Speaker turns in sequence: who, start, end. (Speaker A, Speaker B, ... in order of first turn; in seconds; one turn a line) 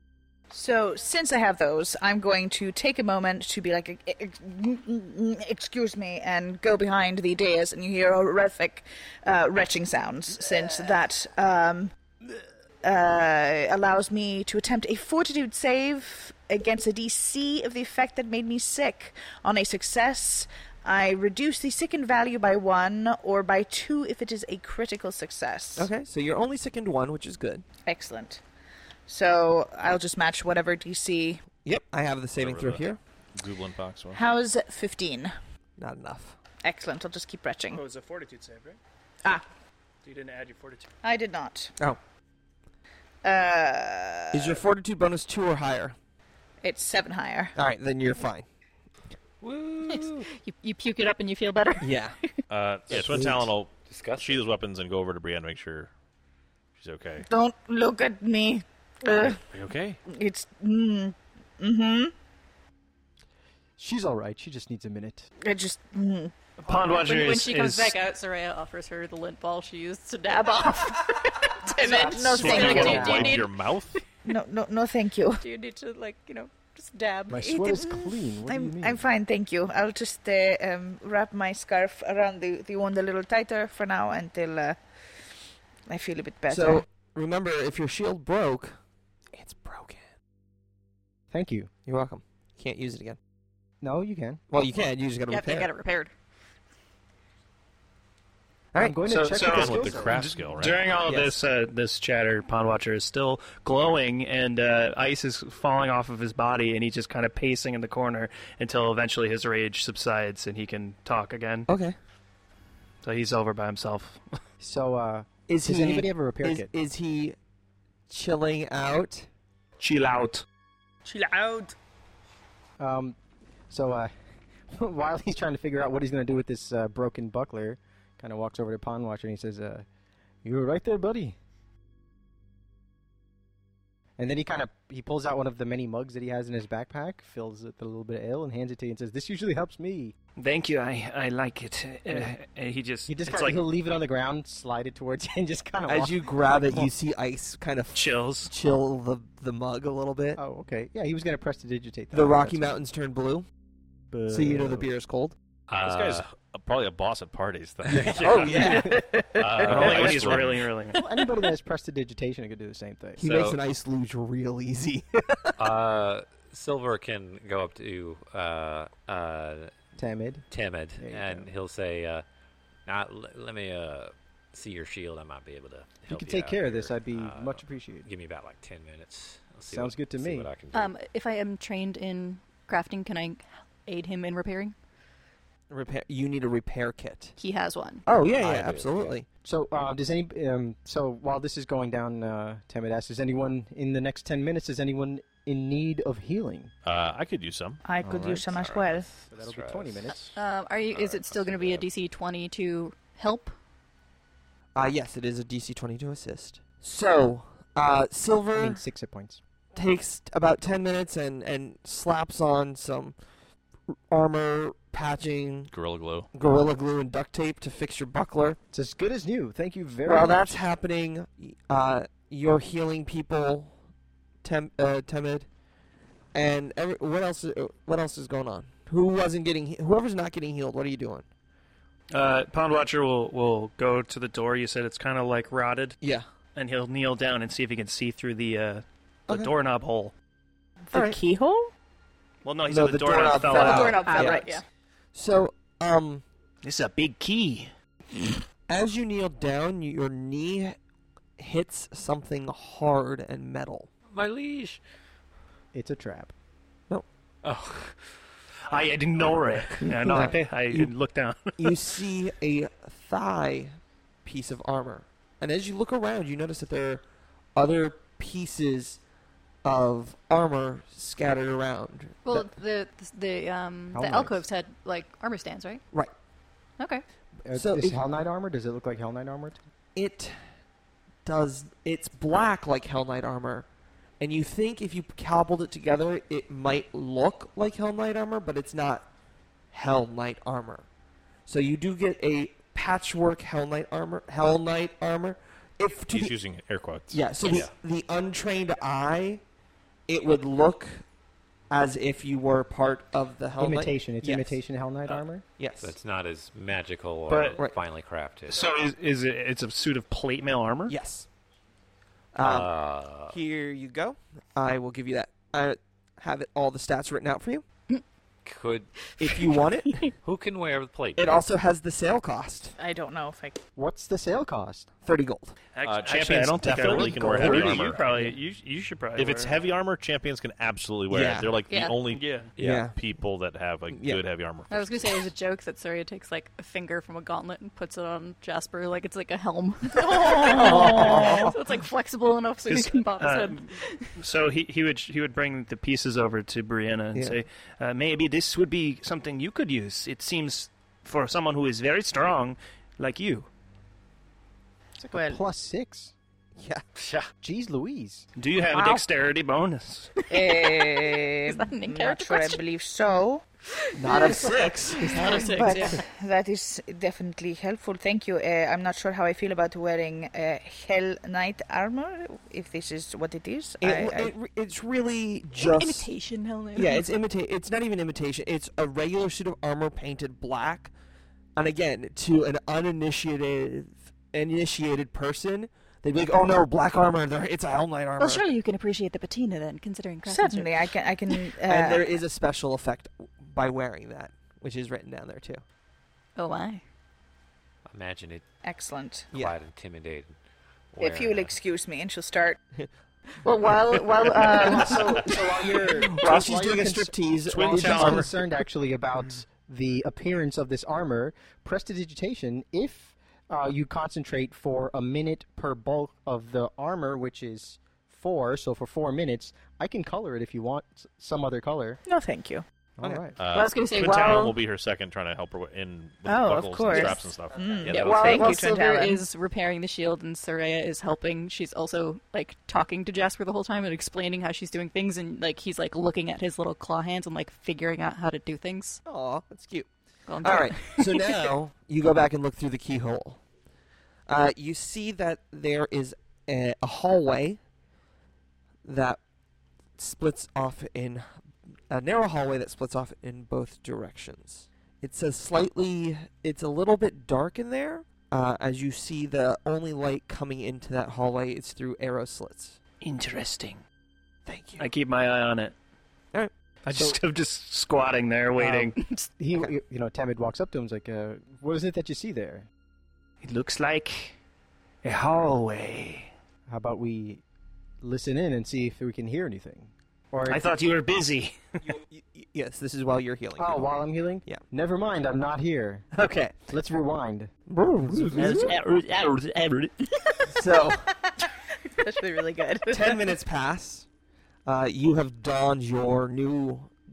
Speaker A: 0.5-11.9
Speaker A: 12.8-25.9
Speaker B: 25.8-27.6
Speaker A: 27.9-28.4
Speaker A: 29.1-31.4
Speaker B: 31.6-33.0
Speaker C: 32.4-34.2
Speaker A: 34.1-35.3
Speaker B: 35.8-36.4
Speaker A: 36.6-37.8
Speaker D: 37.7-38.8
Speaker D: 40.0-40.9
Speaker A: 41.0-41.7
Speaker A: 43.2-44.6
Speaker B: 44.3-46.0
Speaker A: 46.6-47.5
Speaker B: 47.6-48.5
Speaker E: 49.4-50.3
Speaker F: 49.9-52.0
Speaker B: 51.8-52.1
Speaker C: 52.5-55.9
Speaker B: 52.9-53.5
Speaker E: 53.9-54.4
Speaker C: 56.8-57.3
Speaker A: 57.3-59.4
Speaker C: 59.2-60.0
Speaker A: 60.1-62.1
Speaker G: 63.8-65.3
Speaker A: 65.4-66.3
Speaker D: 66.6-68.0
Speaker F: 67.0-74.0
Speaker A: 70.3-73.3
Speaker G: 71.8-73.4
Speaker C: 72.4-74.0
Speaker A: 74.3-75.4
Speaker F: 75.4-77.5
Speaker G: 77.3-79.0
Speaker A: 77.4-85.3
Speaker A: 85.9-86.8
Speaker B: 86.5-88.8
Speaker B: 89.3-90.0
Speaker G: 91.3-91.7
Speaker B: 91.9-93.2
Speaker G: 93.8-94.4
Speaker B: 94.5-95.7
Speaker F: 95.3-96.1
Speaker B: 98.7-99.0
Speaker G: 98.8-100.1
Speaker D: 99.1-111.7
Speaker C: 99.5-101.0
Speaker B: 99.5-100.1
Speaker B: 101.0-101.4
Speaker B: 111.7-112.0
Speaker D: 113.0-114.2
Speaker G: 114.6-116.7
Speaker B: 115.5-117.4
Speaker B: 118.1-119.3
Speaker D: 119.8-120.4
Speaker D: 121.1-121.7
Speaker G: 122.8-123.2
Speaker G: 123.7-124.1
Speaker G: 124.7-129.9
Speaker G: 130.4-131.4
Speaker G: 134.2-140.2
Speaker D: 140.4-143.6
Speaker G: 143.1-146.9
Speaker B: 145.9-150.4
Speaker D: 147.9-148.5
Speaker G: 150.4-152.7
Speaker B: 152.1-153.5
Speaker G: 154.1-154.9
Speaker B: 154.3-155.4
Speaker E: 155.7-156.3
Speaker C: 155.8-158.7
Speaker E: 157.9-158.2
Speaker B: 158.2-160.2
Speaker D: 158.4-159.0
Speaker G: 158.6-159.0
Speaker C: 159.4-160.7
Speaker E: 159.4-160.3
Speaker D: 159.6-161.0
Speaker G: 161.0-163.3
Speaker B: 163.2-165.6
Speaker E: 163.2-163.6
Speaker E: 165.6-169.7
Speaker G: 170.0-170.5
Speaker E: 170.5-172.2
Speaker G: 171.0-171.5
Speaker E: 172.9-180.9
Speaker G: 176.1-178.1
Speaker G: 179.7-180.5
Speaker F: 180.7-184.8
Speaker B: 185.7-187.4
Speaker F: 187.4-188.0
Speaker B: 188.1-189.2
Speaker E: 188.4-189.2
Speaker G: 189.4-196.7
Speaker C: 196.8-197.8
Speaker A: 197.8-199.1
Speaker G: 198.1-198.4
Speaker E: 198.4-200.3
Speaker G: 199.3-200.2
Speaker F: 200.3-203.5
Speaker E: 200.9-201.9
Speaker B: 204.8-208.8
Speaker G: 208.5-209.4
Speaker B: 209.7-213.2
Speaker B: 214.1-215.7
Speaker C: 215.7-216.3
Speaker B: 216.3-218.6
Speaker G: 218.7-220.7
Speaker B: 220.1-223.8
Speaker B: 224.4-225.5
Speaker B: 226.3-231.3
Speaker D: 232.1-235.9
Speaker B: 236.0-236.3
Speaker D: 236.6-240.1
Speaker B: 239.3-239.5
Speaker A: 240.9-241.7
Speaker D: 242.4-244.1
Speaker B: 242.7-244.4
Speaker F: 243.5-244.6
Speaker A: 243.7-244.6
Speaker B: 245.1-246.2
Speaker D: 246.6-247.7
Speaker B: 248.7-250.8
Speaker B: 251.4-253.9
Speaker E: 254.1-254.8
Speaker G: 255.7-256.3
Speaker E: 257.4-257.9
Speaker D: 258.7-261.8
Speaker B: 259.8-260.9
Speaker B: 261.6-267.0
Speaker B: 267.6-269.0
Speaker B: 269.6-272.5
Speaker F: 272.2-275.8
Speaker G: 273.9-274.4
Speaker F: 276.8-277.0
Speaker G: 277.4-279.6
Speaker B: 277.5-278.0
Speaker B: 280.0-280.4
Speaker B: 281.2-283.7
Speaker B: 284.2-289.1
Speaker B: 289.7-290.9
Speaker B: 291.5-296.4
Speaker C: 296.1-297.2
Speaker B: 297.1-299.4
Speaker E: 297.4-297.7
Speaker B: 300.1-301.0
Speaker B: 301.7-304.6
Speaker G: 303.6-305.4
Speaker B: 305.6-305.9
Speaker E: 305.8-308.6
Speaker D: 307.3-307.6
Speaker D: 308.5-310.9
Speaker B: 310.9-311.3
Speaker B: 312.3-312.7
Speaker E: 312.4-313.4
Speaker B: 313.3-317.6
Speaker E: 318.4-318.9
Speaker B: 319.2-320.1
Speaker F: 319.2-320.0
Speaker E: 320.2-321.4
Speaker B: 321.2-322.7
Speaker A: 322.8-323.6
Speaker G: 323.8-324.9
Speaker B: 325.1-325.6
Speaker D: 325.8-329.6
Speaker C: 325.8-328.1
Speaker G: 327.0-327.8
Speaker C: 329.2-335.3
Speaker B: 331.1-331.6
Speaker F: 331.7-332.0
Speaker D: 332.1-332.5
Speaker E: 332.6-332.9
Speaker B: 332.6-332.9
Speaker B: 333.9-334.2
Speaker F: 334.7-344.1
Speaker B: 340.2-341.6
Speaker A: 340.3-341.0
Speaker D: 342.7-353.5
Speaker B: 347.1-347.4
Speaker G: 355.0-356.1
Speaker A: 355.1-355.4
Speaker B: 356.6-356.8
Speaker E: 356.9-357.3
Speaker G: 357.4-358.3
Speaker D: 358.4-360.1
Speaker A: 360.3-363.4
Speaker F: 360.4-362.6
Speaker F: 363.7-366.0
Speaker B: 364.0-365.9
Speaker A: 364.1-364.4
Speaker A: 365.2-374.3
Speaker B: 373.8-376.1
Speaker F: 375.6-377.1
Speaker B: 376.8-380.9
Speaker B: 381.6-388.5
Speaker F: 388.2-391.4
Speaker A: 390.3-392.0
Speaker B: 391.7-395.6
Speaker F: 396.4-396.8
Speaker E: 397.9-398.4
Speaker A: 398.6-399.3
Speaker E: 399.3-400.4
Speaker E: 400.9-401.5
Speaker A: 401.0-402.6
Speaker A: 403.4-405.0
Speaker B: 403.7-408.3
Speaker G: 404.4-422.0
Speaker D: 407.5-408.3
Speaker A: 422.1-422.6
Speaker G: 423.0-423.4
Speaker B: 423.0-423.3
Speaker C: 423.4-427.9
Speaker F: 423.5-424.6
Speaker A: 426.3-429.2
Speaker F: 426.9-427.2
Speaker E: 427.7-428.4
Speaker B: 427.9-428.8
Speaker F: 427.9-439.0
Speaker B: 439.1-439.9
Speaker F: 440.3-441.5
Speaker B: 440.4-443.4
Speaker B: 444.3-447.6
Speaker B: 448.9-449.2
Speaker B: 450.0-451.3
Speaker B: 451.9-462.8
Speaker D: 463.0-463.8
Speaker B: 464.5-464.9
Speaker D: 464.8-465.8
Speaker B: 466.3-467.1
Speaker D: 466.9-469.0
Speaker G: 468.6-472.7
Speaker F: 469.0-469.3
Speaker D: 473.4-474.4
Speaker D: 475.0-476.3
Speaker G: 476.7-477.4
Speaker G: 478.0-480.6
Speaker D: 480.5-481.8
Speaker B: 481.8-483.9
Speaker G: 483.6-486.1
Speaker B: 486.1-486.6
Speaker G: 486.7-487.5
Speaker B: 487.7-488.7
Speaker G: 488.1-488.7
Speaker D: 488.1-489.9
Speaker B: 490.5-491.1
Speaker A: 491.9-493.2
Speaker B: 492.9-494.1
Speaker B: 494.7-496.9